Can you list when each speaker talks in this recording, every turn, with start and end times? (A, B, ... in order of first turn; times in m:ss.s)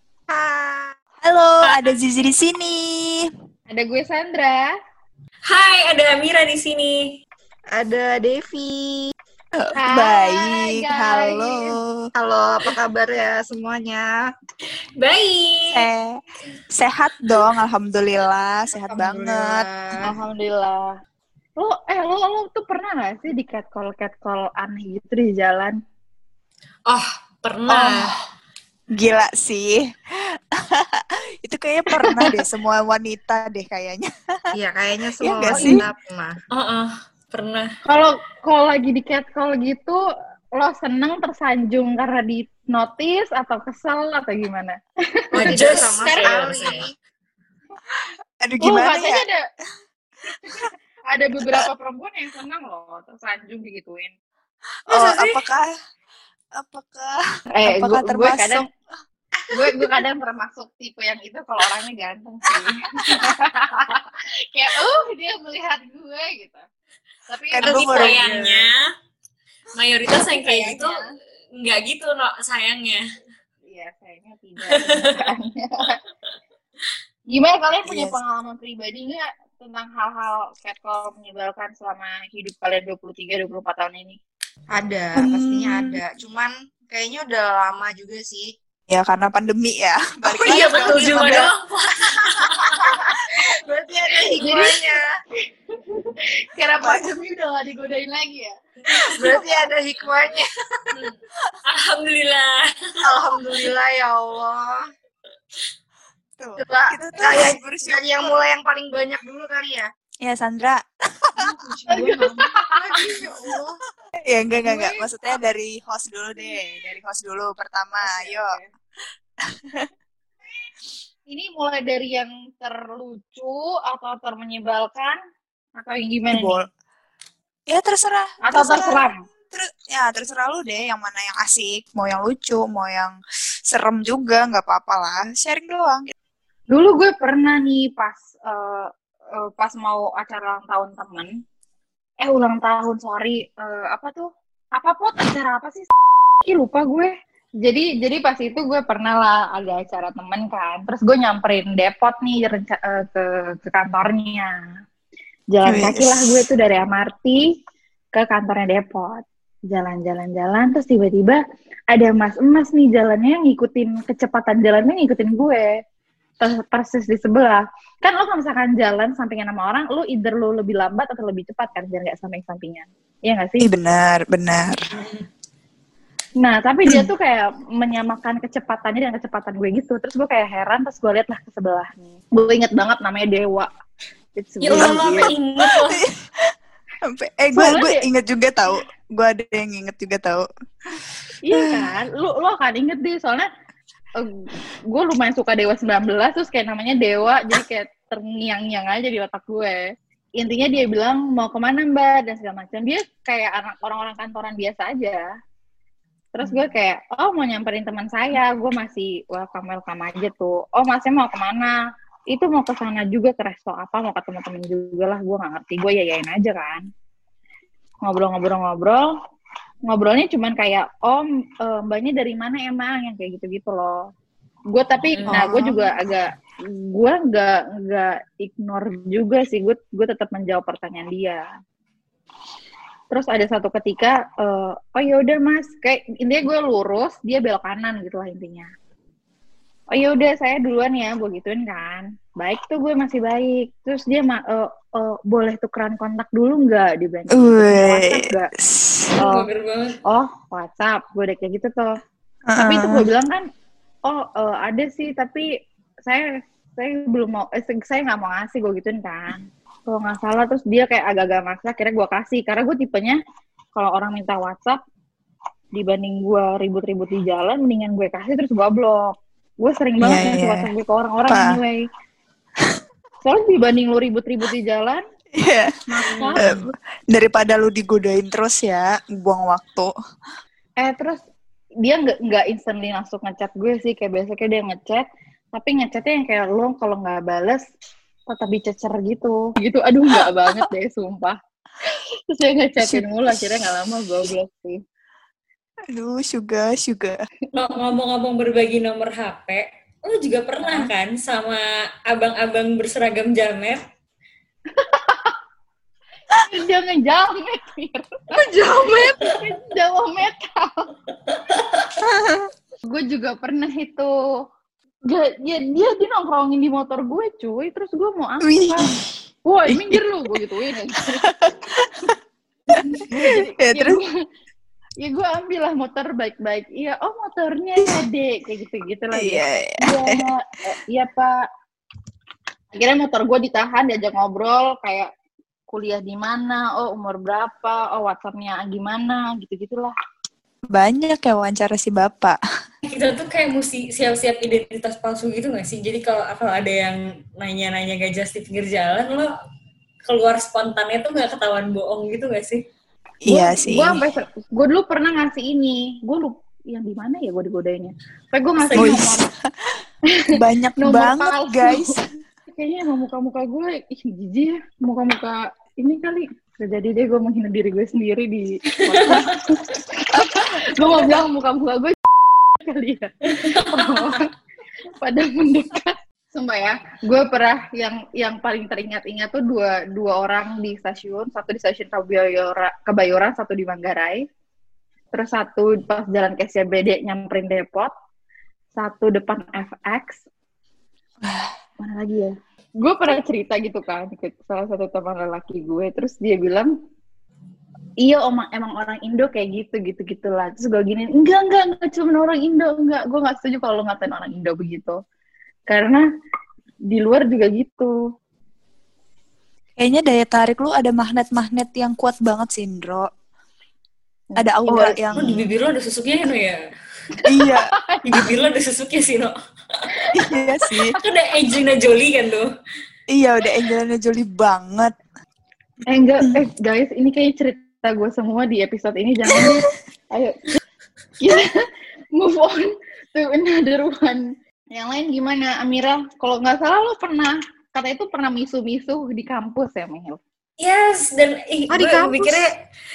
0:00.3-0:00.9 A
0:01.2-0:03.3 B
0:01.6-0:01.9 C
0:03.7-0:04.7 D
0:05.5-0:07.1 C
0:07.7-0:09.1 A
0:09.6-0:12.1 B
0:09.8-0:11.7 D
0:12.1-0:14.1 A
0:15.0-0:15.8 C
0:15.7-0:16.2 B
0:16.8-0:19.6 B
0:18.8-0:20.1 A
0:20.0-0:20.9 D
0:21.6-0:25.8 D
0:26.9-0:28.1 C
0:27.7-0:28.1 B
0:28.9-0:34.1 B
0:32.0-0:32.3 D
0:34.5-0:36.3 A
0:35.2-0:35.8 B
0:35.5-0:35.8 D
0:36.5-0:37.7 C
0:37.8-0:40.0 D
0:40.6-0:44.8 D
0:45.3-0:46.7 D
0:45.3-0:46.9 A
0:45.3-0:46.8 C
0:48.4-0:49.2 B
0:48.6-0:49.4 D
0:50.6-0:54.1 D
0:54.9-0:55.7 B
0:54.9-0:55.4 C
0:56.6-0:58.6 B
0:57.5-0:58.6 D
0:59.5-1:06.6 D
1:07.3-1:08.2 D
1:07.5-1:08.7 B
1:07.6-1:08.8 C
1:09.7-1:11.0 C
1:10.3-1:11.0 D
1:11.6-1:13.0 C
1:13.6-1:15.9 D
1:14.7-1:15.2 C
1:17.3-1:24.2 D
1:17.9-1:18.2 B
1:24.7-1:28.5 A
1:25.2-1:25.9 B
1:28.9-1:31.5 B
1:30.4-1:32.8 C
1:30.4-1:31.5 A
1:32.9-1:35.0 A
1:34.4-1:34.9 D
1:35.7-1:38.5 D
1:36.8-1:37.1 B
1:38.9-1:40.5 A
1:40.9-1:42.7 C
1:43.0-1:44.8 A
1:46.4-1:48.3 B
1:46.6-1:49.9 A
1:50.2-1:52.2 B
1:51.4-1:53.8 A
1:51.9-1:52.6 D
1:54.3-1:58.6 B
1:54.6-1:55.1 D
1:58.0-1:58.6 D
2:01.3-2:05.2 D
2:05.8-2:06.6 D
2:06.3-2:06.7 B
2:07.7-2:16.1 B
2:08.4-2:09.2 D
2:16.7-2:21.3 D
2:22.2-2:25.9 D
2:26.4-2:27.1 D
2:27.6-2:34.5 D
2:35.5-2:37.4 D
2:35.6-2:36.4 B
2:38.1-2:45.7 D
2:46.4-2:53.7 D
2:53.6-2:54.8 B
2:54.9-2:55.2 C
2:56.4-3:03.7 D
3:04.3-3:05.3 D
3:04.6-3:06.0 C
3:04.7-3:06.5 B
3:07.1-3:10.5 B
3:07.5-3:08.0 D
3:11.4-3:13.5 D
3:11.5-3:11.9 B
3:14.9-3:19.8 D
3:20.4-3:25.2 D
3:26.4-3:31.7 D
3:32.3-3:36.8 D
3:38.0-3:39.1 D
3:39.9-3:44.0 D
3:44.7-3:46.3 D
3:45.1-3:45.6 C
3:45.3-3:45.8 B
3:46.8-3:51.4 D
3:53.1-3:58.7 D
3:59.9-4:08.5 D
4:07.3-4:09.1 B
4:09.2-4:10.0 C
4:09.2-4:09.4 D
4:10.0-4:11.9 D
4:12.5-4:13.1 B
4:12.6-4:13.4 D
4:14.1-4:15.4 D
4:16.8-4:23.2 D
4:23.7-4:24.8 D
4:25.7-4:31.9 D
4:30.0-4:30.7 B
4:31.3-4:31.6 B
4:33.2-4:35.0 D
4:35.4-4:35.7 B
4:35.9-4:36.6 D
4:36.1-4:36.6 C
4:36.4-4:39.9 B
4:40.8-4:41.2 D
4:41.8-4:47.6 D
4:48.3-4:51.4 D
4:52.3-4:54.8 D
4:52.8-4:53.6 B
4:55.9-4:57.2 B
4:57.5-5:03.8 C
5:04.8-5:05.3 D
5:06.4-5:08.4 D
5:08.3-5:09.2 A
5:08.9-5:10.9 D
5:11.3-5:11.9 C
5:12.0-5:12.5 B
5:12.8-5:14.1 D
5:15.1-5:18.9 D
5:18.4-5:19.2 B
5:19.5-5:21.2 D
5:19.7-5:20.0 B
5:21.2-5:21.9 B
5:22.8-5:24.1 D
5:23.0-5:24.0 B
5:25.0-5:31.3 D
5:29.1-5:30.2 B
5:32.7-5:35.1 D
5:35.7-5:39.9 D
5:40.7-5:42.4 B
5:42.8-5:49.3 C
5:50.0-5:52.6 C
5:53.2-5:54.0 B
5:53.3-5:59.2 D
5:58.6-5:59.0 C
5:58.7-5:59.3 B
6:00.3-6:02.0 B
6:00.8-6:01.9 D
6:02.5-6:14.3 D
6:08.9-6:09.4 C
6:13.9-6:14.2 C
6:15.0-6:24.2 D
6:25.1-6:27.9 D
6:28.7-6:30.2 D
6:31.2-6:31.5 B
6:31.8-6:36.7 D
6:38.0-6:45.0 D
6:45.7-6:46.0 D
6:46.9-6:47.9 D
6:49.8-6:53.1 B
6:54.3-6:55.4 D
6:54.4-6:55.4 B
6:55.1-6:56.6 C
6:57.2-6:58.0 D
6:57.3-6:57.6 B
6:58.0-6:59.3 C
7:00.0-7:00.7 D
7:00.1-7:00.9 B
7:01.0-7:02.5 C
7:03.1-7:04.9 B
7:05.9-7:10.6 D
7:11.2-7:11.4 D
7:12.1-7:14.2 D
7:14.7-7:20.2 D
7:20.6-7:22.5 C
7:21.7-7:22.4 A